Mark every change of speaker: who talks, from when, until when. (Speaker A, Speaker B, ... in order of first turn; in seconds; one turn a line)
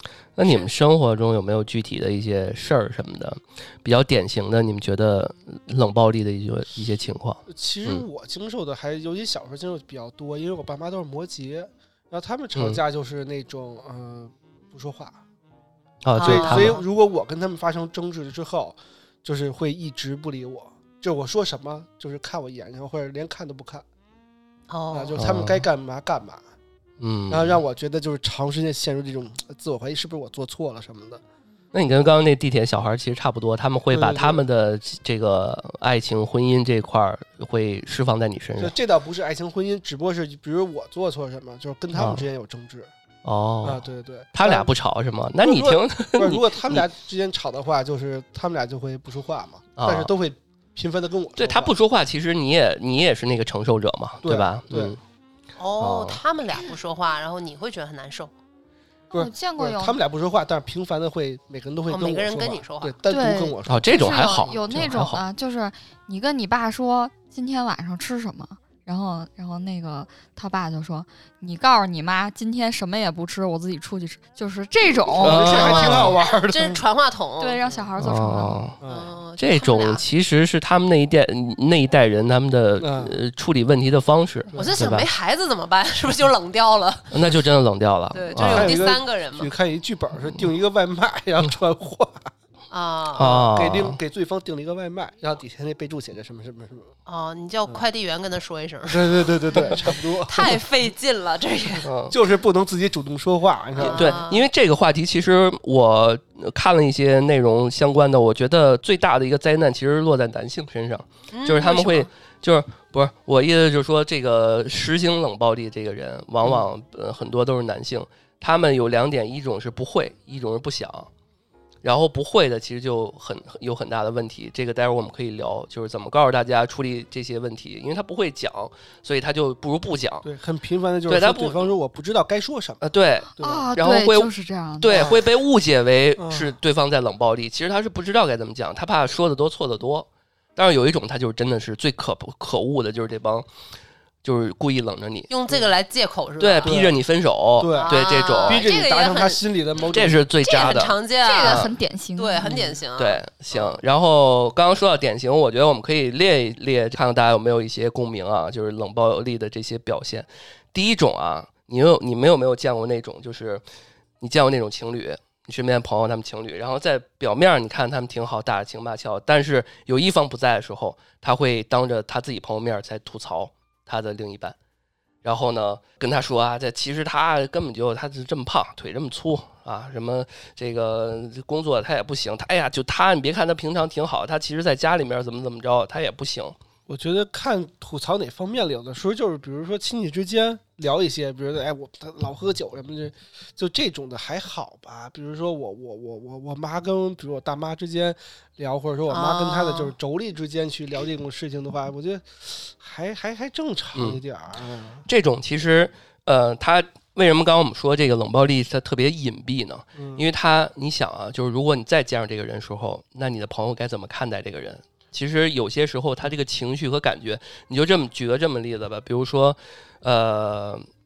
Speaker A: 0.3-8.0
Speaker B: 0.4-0.7
Speaker C: 7.5-15.2
Speaker A: 12.5-12.8
Speaker A: 16.0-16.8
Speaker B: 16.1-16.8
Speaker C: 16.2-23.8
Speaker B: 24.7-25.2
Speaker C: 24.9-26.4
Speaker A: 25.2-25.6
Speaker A: 27.0-27.6
Speaker C: 27.3-31.2
Speaker A: 31.7-38.7
Speaker C: 33.9-34.4
Speaker C: 38.6-42.9
Speaker A: 42.0-42.2
Speaker A: 43.2-46.9
Speaker C: 43.6-44.7
Speaker C: 45.4-51.7
Speaker A: 49.8-50.1
Speaker A: 51.4-55.0
Speaker C: 54.2-55.0
Speaker B: 55.6-58.3
Speaker A: 55.8-56.2
Speaker D: 59.1-60.0
Speaker C: 59.1-64.9
Speaker B: 61.9-63.0
Speaker D: 63.1-75.5
Speaker A: 63.7-65.2
Speaker C: 75.1-76.8
Speaker A: 75.2-76.1
Speaker B: 75.3-77.8
Speaker D: 77.4-78.6
Speaker A: 78.0-78.8
Speaker C: 78.8-79.1
Speaker B: 78.8-80.0
Speaker A: 79.4-85.1
Speaker C: 82.8-83.2
Speaker C: 84.5-84.9
Speaker B: 84.5-87.2
Speaker A: 87.1-88.8
Speaker B: 88.1-89.5
Speaker C: 88.3-92.3
Speaker B: 92.7-93.5
Speaker A: 93.1-94.0
Speaker C: 93.2-96.9
Speaker B: 97.1-101.9
Speaker C: 98.8-100.6
Speaker A: 101.8-102.2
Speaker C: 102.1-104.2
Speaker B: 103.8-104.5
Speaker A: 103.8-121.1
Speaker B: 111.3-112.1
Speaker A: 121.8-130.3
Speaker C: 130.2-132.8
Speaker A: 131.1-131.7
Speaker A: 132.8-143.5
Speaker C: 133.4-133.7
Speaker D: 133.4-135.1
Speaker B: 134.9-135.2
Speaker C: 136.2-136.6
Speaker A: 144.2-145.3
Speaker B: 145.3-146.8
Speaker A: 146.4-148.7
Speaker C: 146.6-147.0
Speaker C: 147.6-150.2
Speaker B: 147.8-153.8
Speaker A: 149.9-151.7
Speaker D: 151.2-152.5
Speaker C: 152.4-152.8
Speaker A: 153.0-163.6
Speaker A: 164.2-174.6
Speaker A: 175.2-186.6
Speaker C: 186.9-205.0
Speaker B: 199.1-199.9
Speaker A: 203.9-204.2
Speaker A: 205.1-220.9
Speaker C: 209.9-210.2